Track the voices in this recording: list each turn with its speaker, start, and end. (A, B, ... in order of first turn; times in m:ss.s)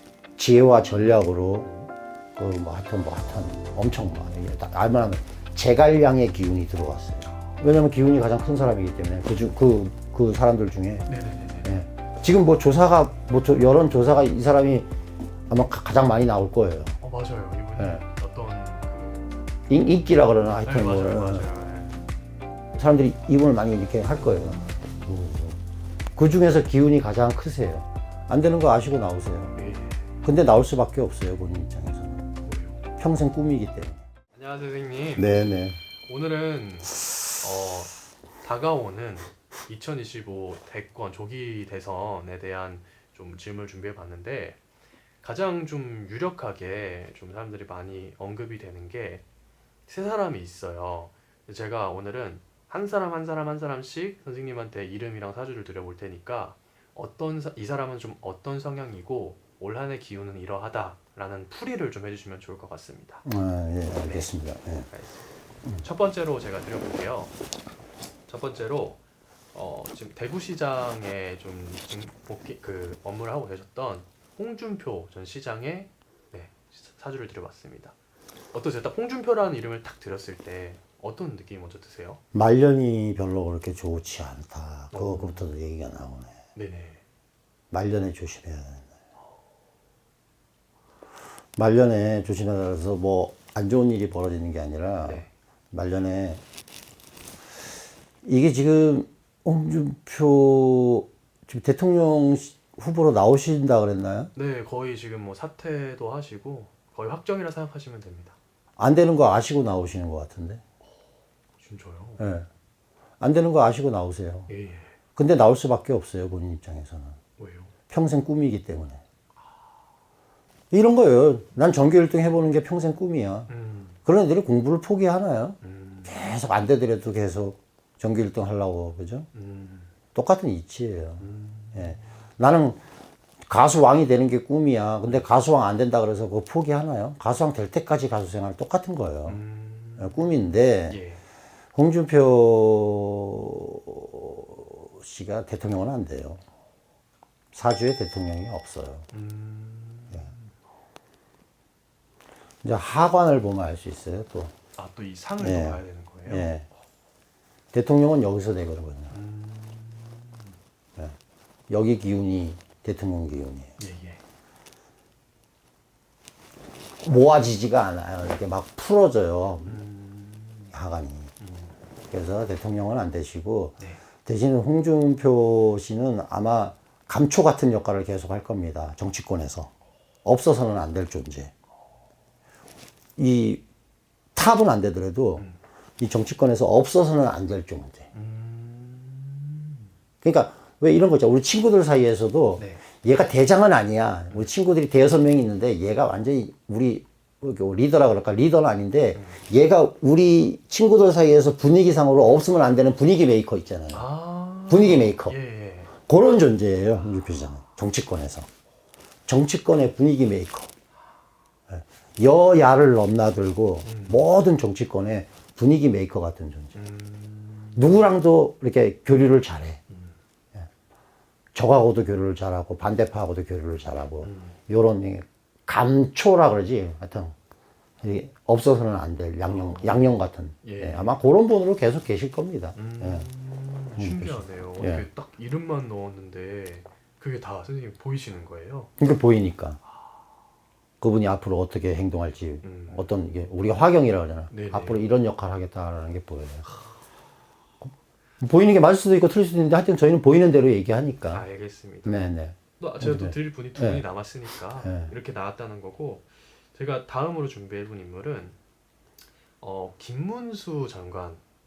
0:00.4-0:01.7 A
0:01.6-0:01.9 B
0:02.4-0:11.1 A
0:11.0-0:11.8 B
0:11.6-0:14.9 A
0:15.5-0:17.0 A
0:17.0-0:19.4 B
0:17.8-0:18.0 A
0:19.7-0:21.5 A
0:20.6-0:22.0 B
0:22.7-0:25.6 A
0:26.1-0:29.5 A
0:29.6-0:30.1 B
0:30.2-0:32.3 A
0:32.4-0:32.8 B
0:33.0-0:34.0 A
0:34.3-0:35.3 B
0:35.2-0:35.8 A
0:36.0-0:44.6 B
0:45.2-0:49.2 B
0:49.9-1:03.2 B
1:03.2-1:04.9 A
1:03.9-1:04.3 B
1:04.9-1:05.3 B
1:05.8-1:07.3 B
1:08.3-1:09.0 B
1:09.5-1:17.9 B
1:18.5-1:22.2 B
1:22.3-1:26.3 A
1:24.9-1:25.4 B
1:26.5-1:27.0 B
1:27.7-1:28.8 A
1:31.6-1:36.4 A
1:35.0-1:35.3 B
1:38.2-1:44.3 A
1:44.3-1:48.4 B
1:48.8-1:50.6 A
1:51.6-1:52.2 B
1:52.2-1:52.5 A
1:53.2-1:54.5 A
1:54.5-1:54.9 B
1:55.2-1:57.2 A
1:57.4-1:57.7 B
1:57.9-1:59.0 A
2:00.7-2:03.5 A
2:03.5-2:04.0 B
2:04.0-2:09.3 A
2:05.6-2:06.1 B
2:09.3-2:09.9 B
2:10.1-2:12.8 A
2:11.2-2:12.0 B
2:13.5-2:19.4 A
2:19.2-2:20.2 B
2:20.0-2:21.0 A
2:20.9-2:21.2 B
2:21.7-2:26.4 A
2:27.5-2:29.1 A
2:29.1-2:30.4 B
2:32.6-2:34.5 A
2:34.8-2:36.6 B
2:35.4-2:36.6 A
2:37.7-2:39.2 A
2:39.1-2:40.5 B
2:41.7-2:43.7 A
2:43.8-2:44.2 B
2:47.0-2:49.8 A
2:49.6-2:50.7 B
2:50.7-2:51.3 A
2:51.4-2:51.7 B
2:52.1-2:59.7 A
3:00.2-3:01.5 A
3:03.2-3:03.6 A
3:04.3-3:05.4 A
3:06.0-3:08.1 A
3:08.1-3:09.9 B
3:10.2-3:24.1 A
3:23.9-3:25.9 B
3:24.7-3:25.4 A
3:26.0-3:28.5 A
3:29.3-3:30.7 A
3:31.7-3:36.8 A
3:33.8-3:34.2 B
3:36.7-3:38.1 B
3:37.7-3:39.8 A
3:39.9-3:40.2 B
3:41.5-3:47.3 A
3:44.2-3:44.6 B
3:48.0-3:53.2 A
3:49.5-3:50.0 B
3:50.6-3:51.1 B
3:52.7-3:58.9 B
3:54.0-3:55.0 A
3:59.0-3:59.8 A
4:01.0-4:06.7 A
4:02.6-4:03.1 B
4:04.5-4:05.0 B
4:07.8-4:11.4 A
4:11.3-4:12.2 B
4:12.0-4:14.0 A
4:12.8-4:18.6 B
4:14.8-4:15.1 A
4:19.6-4:21.4 B